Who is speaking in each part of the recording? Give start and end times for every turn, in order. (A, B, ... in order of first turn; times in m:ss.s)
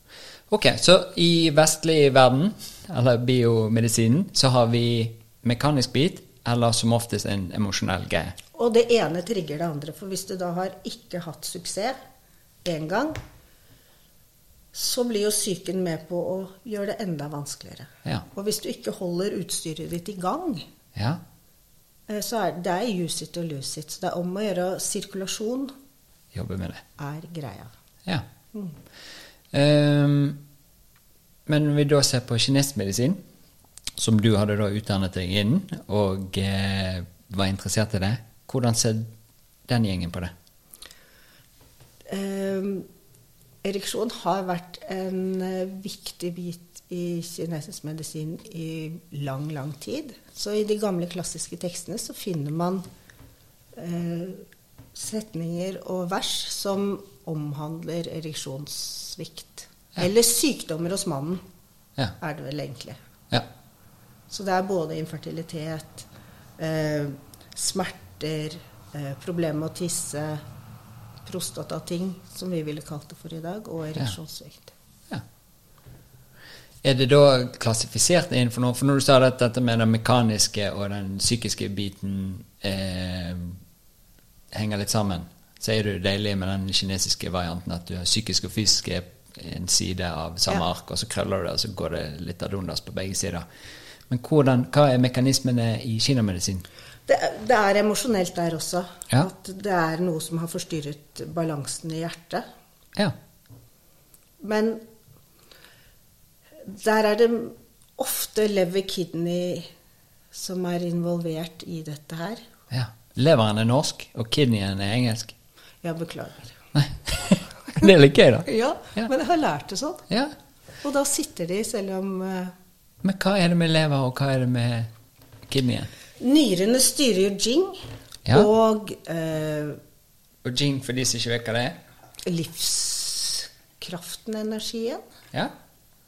0:00.5-0:08.4 A
0:08.5-0:12.0 B
0:12.6-0:13.2 B
0:14.7-0:20.7 B
0:20.9-0:21.2 A
0:22.1-0:25.7 B
0:26.3-0:26.8 A
0:27.0-0:27.7 B
0:29.5-0:30.4 A
0:31.5-0:33.2 A
0:34.0-0:39.1 A
0:39.7-0:40.3 A
0:42.1-0:42.9 B
0:43.6-0:52.8 B
0:53.7-1:01.4 B
1:02.2-1:03.0 B
1:04.3-1:10.4 B
1:11.2-1:14.7 B
1:16.8-1:23.6 A
1:24.5-1:33.4 A
1:34.1-1:36.6 A
1:37.1-1:42.4 B
1:44.4-1:44.8 B
1:46.6-1:49.7 B
1:50.3-1:52.4 B
1:52.7-1:55.3 A
1:55.8-1:56.6 B
1:56.7-1:59.1 A
1:58.4-2:00.1 B
2:00.8-2:02.5 B
2:03.0-2:04.9 A
2:05.5-2:05.9 A
2:06.2-2:09.8 B
2:10.4-2:11.8 A
2:12.2-2:15.0 B